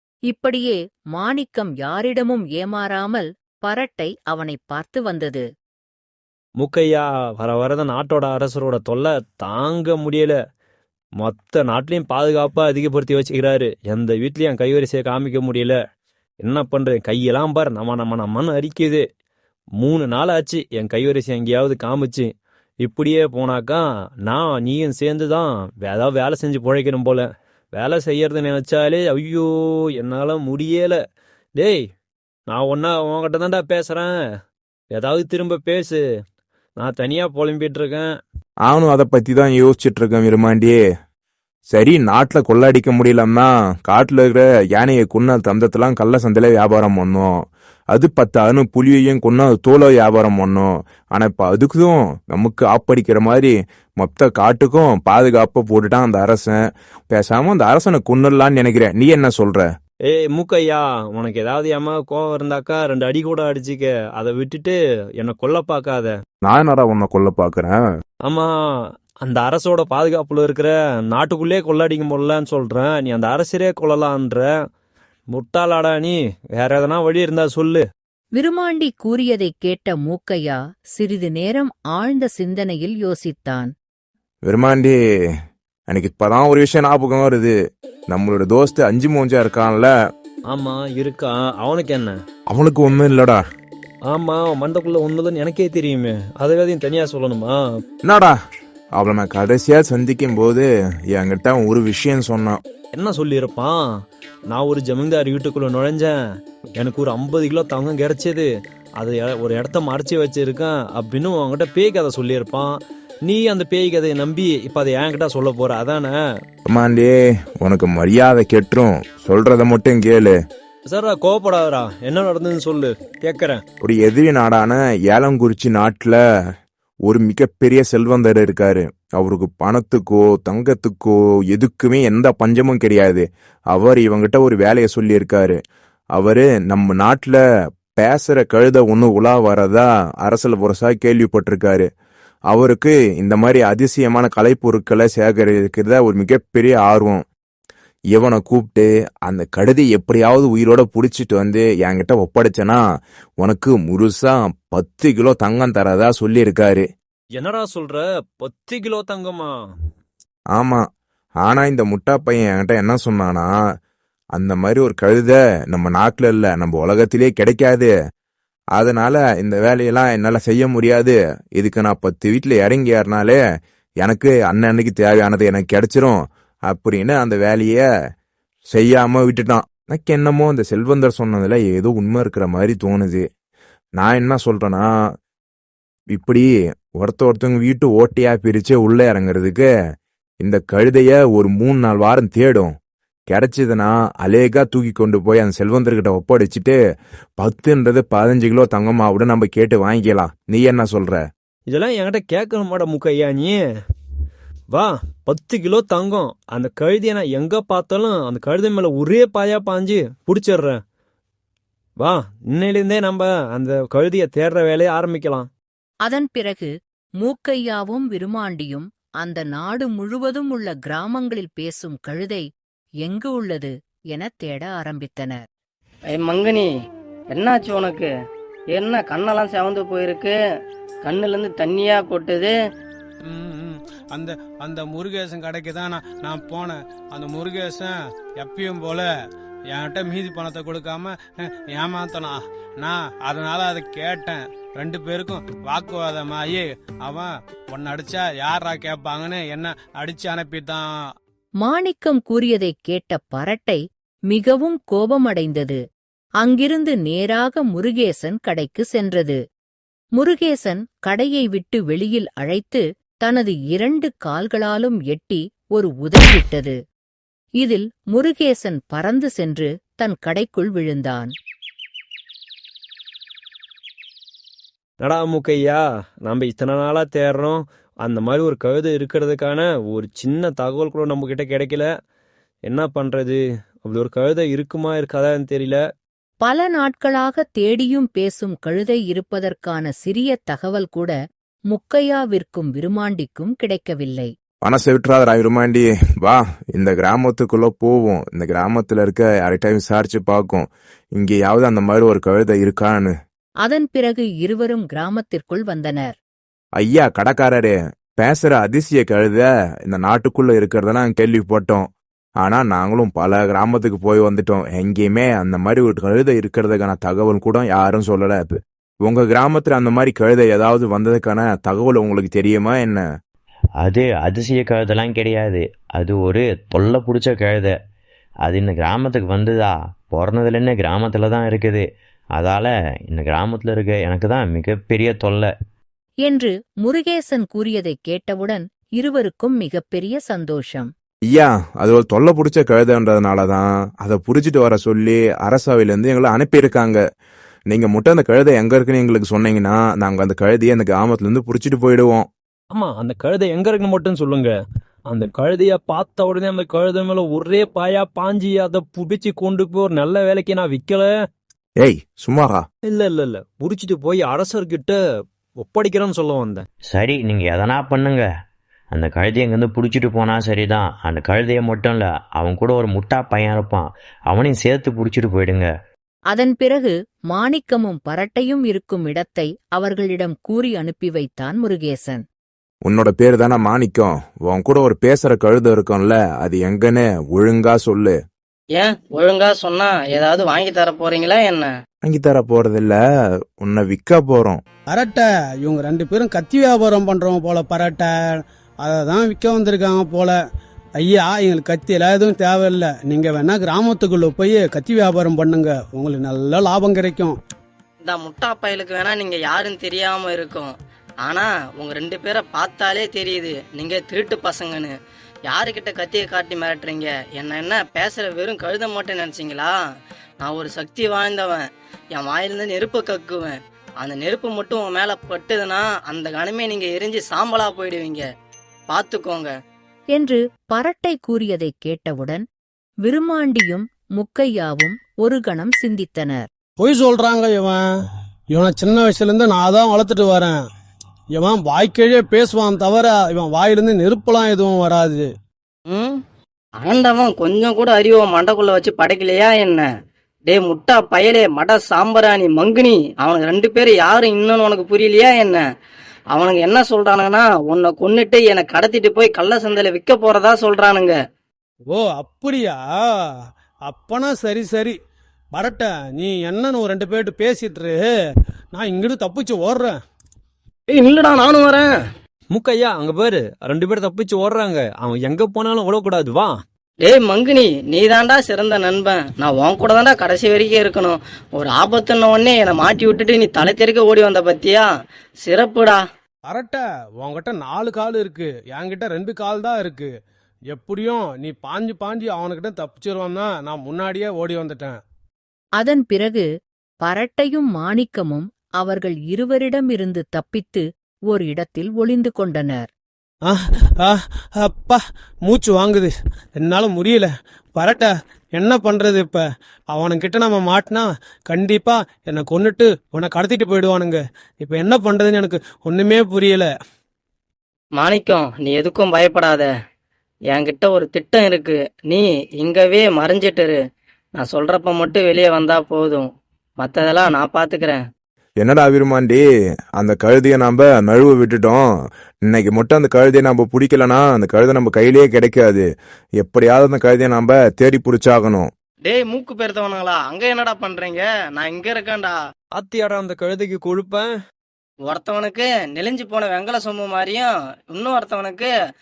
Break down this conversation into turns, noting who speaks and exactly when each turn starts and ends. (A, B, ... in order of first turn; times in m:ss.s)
0:00.3-0:05.4 A
0:06.6-0:10.3 B
0:11.2-0:15.8 B
0:16.4-0:19.0 B
0:19.8-0:22.3 B
0:22.8-0:31.0 B
0:32.5-0:34.1 B
0:34.9-0:36.0 B
0:36.8-0:38.1 B
0:38.6-0:40.8 C
0:41.7-0:47.4 C
0:47.9-0:56.6 C
0:57.1-0:59.7 C
1:00.1-1:06.1 B
1:06.4-1:07.8 C
1:08.2-1:14.5 B
1:15.3-1:17.8 B
1:18.4-1:23.7 A
1:24.4-1:25.0 C
1:25.9-1:27.5 C
1:28.1-1:29.9 C
1:30.5-1:32.1 B
1:32.5-1:33.4 C
1:34.1-1:37.6 B
1:38.0-1:38.3 C
1:39.0-1:42.6 C
1:42.9-1:43.8 B
1:44.5-1:46.1 B
1:46.8-1:52.7 B
1:53.2-1:56.1 B
1:56.6-2:00.4 C
2:00.9-2:03.6 B
2:03.8-2:06.2 C
2:07.0-2:15.6 C
2:16.1-2:17.4 C
2:18.0-2:21.9 C
2:22.5-2:27.2 C
2:28.1-2:32.8 C
2:33.4-2:36.9 C
2:37.4-2:39.5 B
2:40.5-2:40.8 C
2:41.4-2:43.5 C
2:44.3-2:47.9 C
2:48.7-2:53.4 C
2:54.0-2:57.9 C
2:58.7-3:03.3 C
3:04.0-3:04.9 C
3:06.1-3:09.7 C
3:10.4-3:12.7 C
3:13.3-3:16.8 C
3:17.4-3:21.2 C
3:21.7-3:23.6 B
3:24.7-3:30.8 B
3:32.0-3:35.5 B
3:36.0-3:36.7 A
3:37.2-3:42.5 A
3:43.0-3:45.4 A
3:46.1-3:46.7 D
3:47.3-3:48.1 D
3:48.7-3:50.3 D
3:51.0-3:52.5 D
3:53.3-3:59.1 E
3:59.7-4:10.9 E
4:11.6-4:15.8 A
4:16.4-4:19.4 A
4:20.2-4:26.8 A
4:27.6-4:31.3 A
4:35.0-4:41.9 B
4:42.6-4:45.8 B
4:46.4-4:51.1 A
4:51.7-4:54.3 A
4:54.6-5:03.1 C
5:03.6-5:06.2 A
5:06.8-5:11.9 C
5:12.4-5:23.0 C
5:23.9-5:27.7 F
5:28.5-5:31.8 F
5:32.4-5:35.5 F
5:36.2-5:40.9 A
5:41.2-5:47.0 C
5:47.7-5:52.3 C
5:52.7-5:54.5 B
5:55.1-6:01.1 B
6:01.8-6:02.6 C
6:02.9-6:05.0 B
6:05.6-6:06.6 B
6:07.0-6:08.2 F
6:09.0-6:15.7 F
6:16.3-6:22.2 A
6:22.8-6:28.2 C
6:28.8-6:31.7 D
6:32.0-6:33.0 C
6:33.6-6:34.6 C
6:34.9-6:40.3 E
6:41.0-6:47.4 E
6:48.0-6:50.7 D
6:51.2-6:54.9 D
6:55.5-6:59.7 D
7:00.4-7:01.6 D
7:02.1-7:08.2 D
7:08.9-7:09.5 D
7:10.1-7:12.4 A
7:13.0-7:16.5 A
7:16.8-7:17.8 E
7:18.5-7:20.6 E
7:21.3-7:25.3 E
7:25.9-7:26.2 D
7:26.8-7:29.9 D
7:30.5-7:35.6 D
7:36.3-7:41.1 D
7:41.9-7:42.8 E
7:43.9-7:45.0 E
7:45.5-7:48.0 E
7:48.7-7:49.9 E
7:50.9-7:51.9 D
7:52.5-7:56.5 B
7:57.0-8:04.9 D
8:05.4-8:06.0 D
8:06.5-8:10.1 E
8:10.7-8:15.0 E
8:15.8-8:16.5 A
8:17.0-8:22.9 A
8:23.5-8:36.7 E
8:38.0-8:39.7 D
8:40.5-8:43.8 D
8:44.4-8:46.2 D
8:46.8-8:48.0 D
8:48.6-8:49.4 C
8:50.0-8:51.8 C
8:52.4-8:55.9 C
8:56.4-8:58.7 C
8:59.0-9:02.4 D
9:02.7-9:04.3 B
9:05.1-9:08.7 D